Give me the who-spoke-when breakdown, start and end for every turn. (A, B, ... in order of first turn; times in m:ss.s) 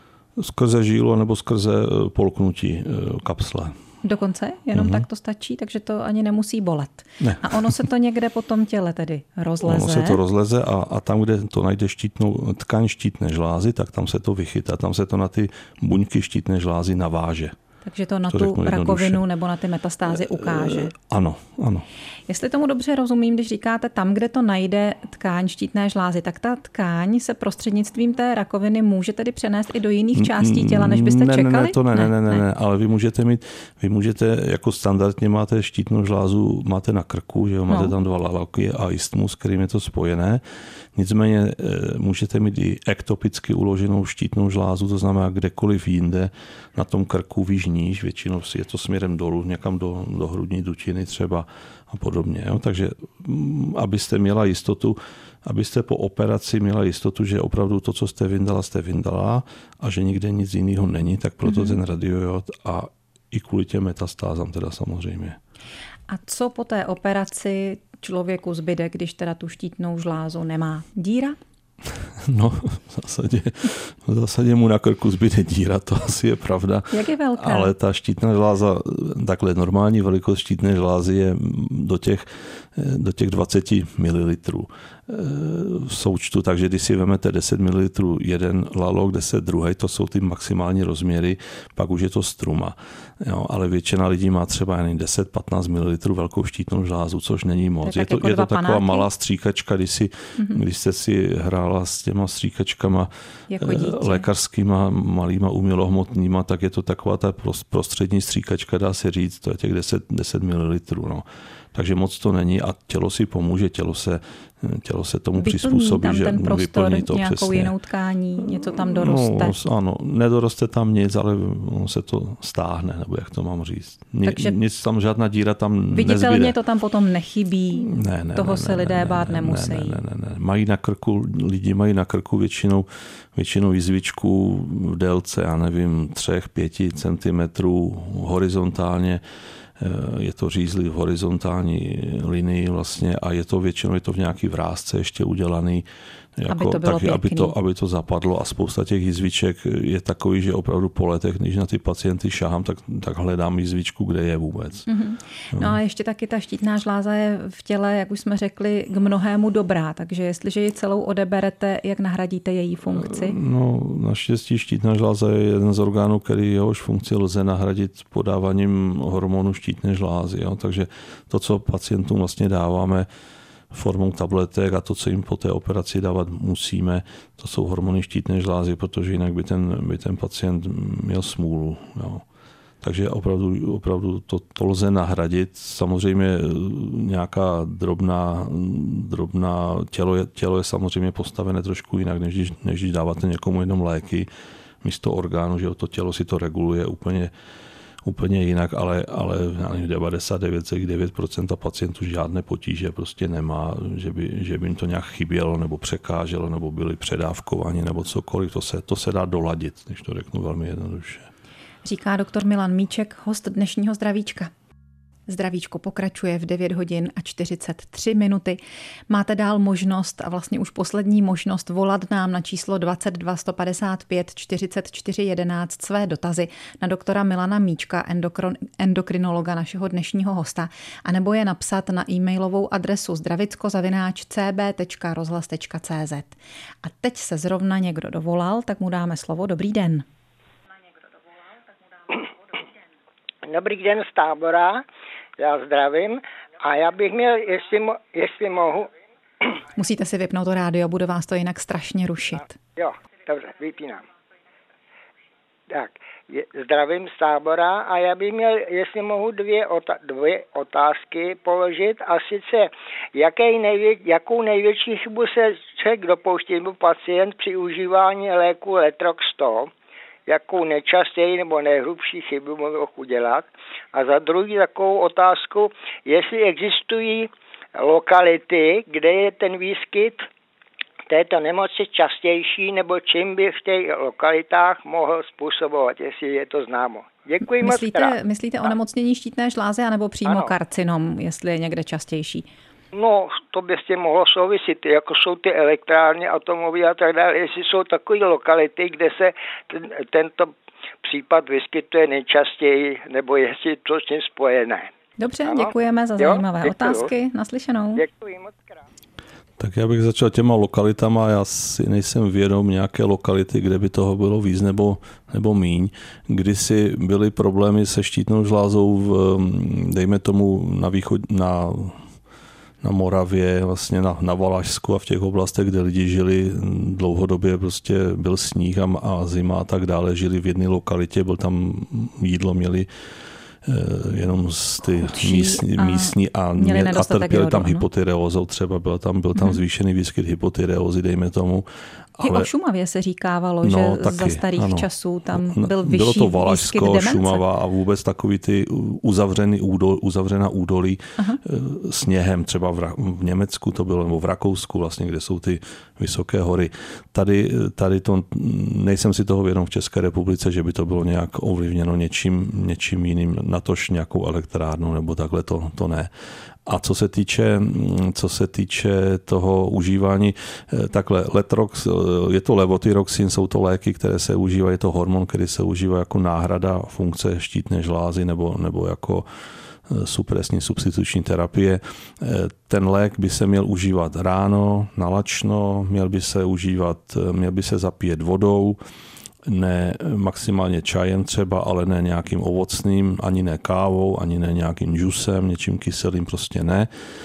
0:00.4-0:03.8 A
0:04.0-0:10.2 B
0:04.7-0:05.0 A
0:07.2-0:07.8 A
0:09.6-0:17.6 A
0:17.8-0:20.9 B
0:18.3-0:19.2 A
0:20.1-0:21.9 A
0:22.3-0:32.4 B
0:30.1-0:40.4 A
0:40.9-1:05.4 A
1:01.5-1:01.8 B
1:06.1-1:11.4 B
1:11.9-1:57.7 A
1:16.9-1:17.7 B
1:37.8-1:39.1 B
1:43.5-1:44.3 B
1:55.4-1:59.6 B
1:58.4-2:06.6 A
2:04.2-2:04.6 B
2:05.9-2:10.0 B
2:07.7-2:19.2 A
2:19.8-2:34.9 A
2:26.5-2:27.5 B
2:34.9-2:43.4 B
2:43.0-2:53.1 A
2:53.7-3:02.2 A
3:02.8-3:14.3 A
3:14.8-3:17.3 A
3:18.0-3:31.3 A
3:31.8-3:34.5 B
3:35.3-4:00.0 B
4:03.4-4:04.8 C
4:05.4-4:08.9 C
4:09.8-4:12.6 B
4:12.8-4:14.0 C
4:15.7-4:29.7 C
4:30.3-4:40.3 C
4:41.1-4:48.1 C
4:47.5-4:52.5 B
4:50.3-4:50.5 C
4:52.9-5:04.9 C
5:05.2-5:08.0 B
5:05.5-5:07.1 C
5:08.0-5:08.8 C
5:09.6-5:22.0 A
5:22.8-5:32.9 A
5:33.6-5:42.5 A
5:35.0-5:37.9 B
5:42.2-5:47.4 B
5:43.6-6:06.1 A
6:06.6-6:19.3 A
6:19.9-6:28.8 A
6:29.4-6:36.9 A